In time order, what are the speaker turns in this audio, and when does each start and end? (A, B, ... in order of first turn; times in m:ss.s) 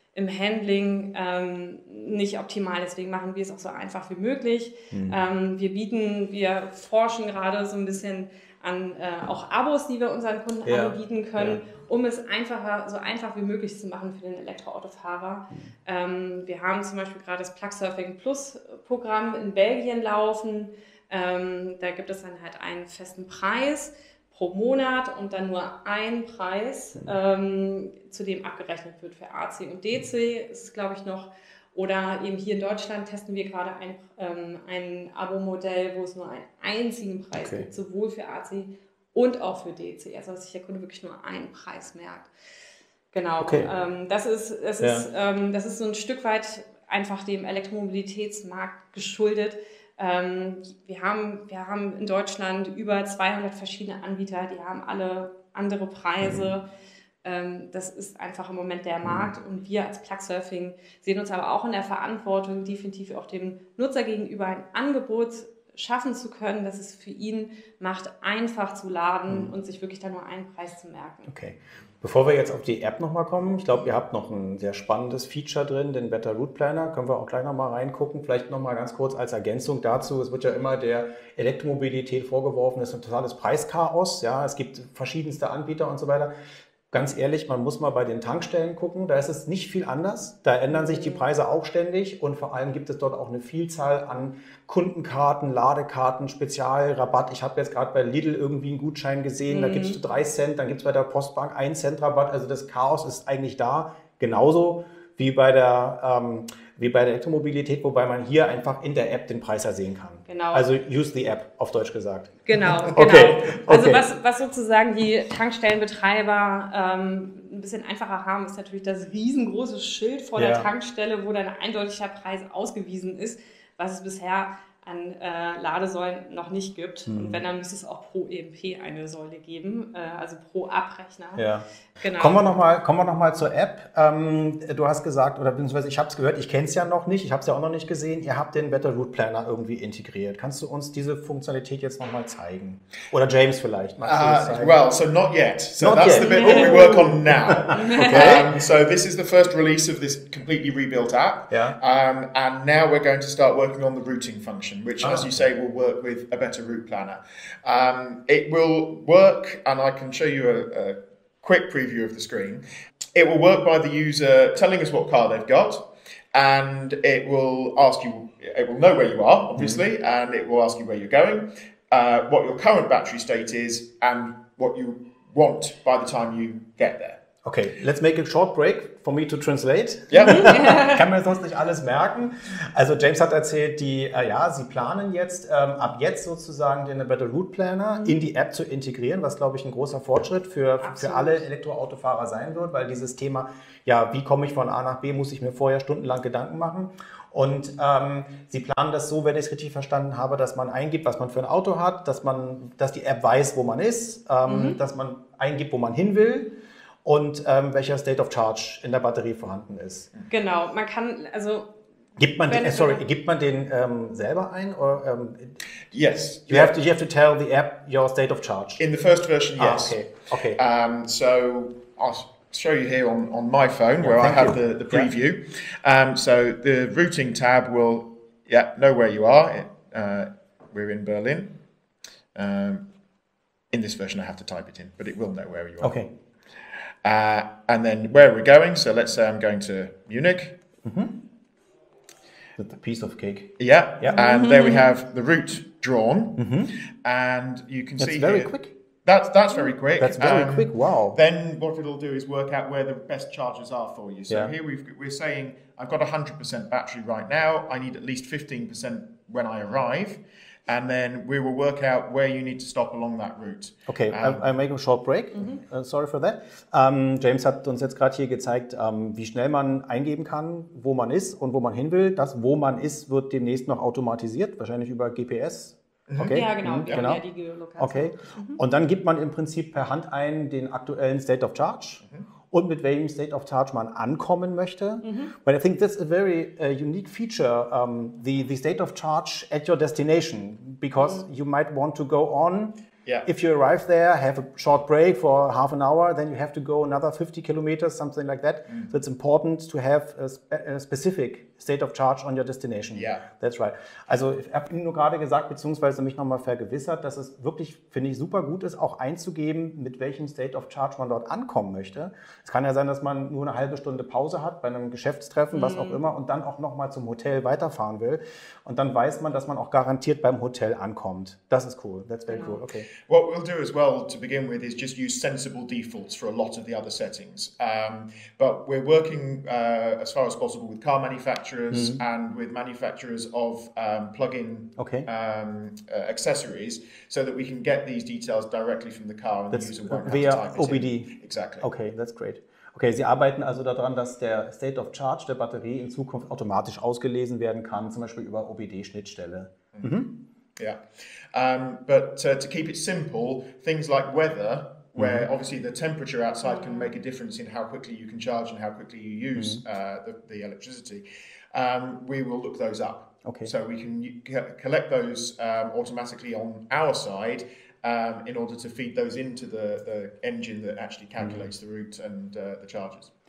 0:00.1-0:42.3 A
0:04.9-0:05.2 B
0:10.6-0:11.6 B
0:37.4-0:37.7 B
0:43.1-0:56.6 A
0:43.4-0:43.7 B
0:44.8-0:45.0 B
0:56.2-0:56.5 B
0:57.2-1:11.3 A
0:59.0-0:59.3 B
1:11.3-1:26.3 B
1:26.9-1:54.1 B
1:30.7-1:31.3 A
1:39.5-1:40.0 A
1:50.3-1:50.6 A
1:52.4-2:11.4 A
2:00.4-2:00.7 B
2:07.1-2:07.4 B
2:11.4-2:24.8 B
2:12.0-2:12.5 A
2:24.0-2:42.6 C
2:25.8-2:28.6 B
2:26.2-2:27.0 A
2:27.7-2:28.4 A
2:31.5-2:31.8 B
2:35.0-2:35.3 B
2:43.1-2:57.2 C
2:49.6-2:49.8 B
2:57.4-3:30.1 B
3:00.1-3:00.6 C
3:00.2-3:01.0 A
3:10.8-3:11.4 A
3:24.4-3:24.8 A
3:30.3-3:31.8 A
3:32.2-3:35.6 B
3:32.4-3:33.0 A
3:35.9-3:36.7 C
3:36.5-3:38.8 B
3:38.8-3:40.0 C
3:39.6-3:40.6 B
3:40.5-3:51.5 C
3:44.0-3:45.1 B
3:52.3-3:52.9 C
3:53.7-3:56.0 C
3:55.8-3:56.1 B
3:57.0-4:00.6 C
4:00.8-4:01.2 B
4:02.6-4:04.2 B
4:03.6-4:24.4 C
4:04.1-4:04.9 A
4:06.4-4:06.7 B
4:08.0-4:08.7 B
4:10.0-4:11.2 B
4:23.9-4:37.2 B
4:36.1-4:37.1 C
4:36.3-4:38.6 A
4:37.8-5:22.9 B
4:45.0-4:45.3 A
5:02.9-5:03.2 C
5:15.5-5:16.0 A
5:22.3-5:22.6 A
5:23.0-5:41.7 C
5:31.7-5:32.0 B
5:34.8-5:35.1 B
5:39.5-5:50.1 B
5:49.7-5:50.0 C
5:50.6-6:13.1 C
5:55.0-5:55.3 B
5:56.4-5:56.9 A
5:59.4-5:59.6 B
6:03.2-6:03.5 B
6:11.2-6:11.5 B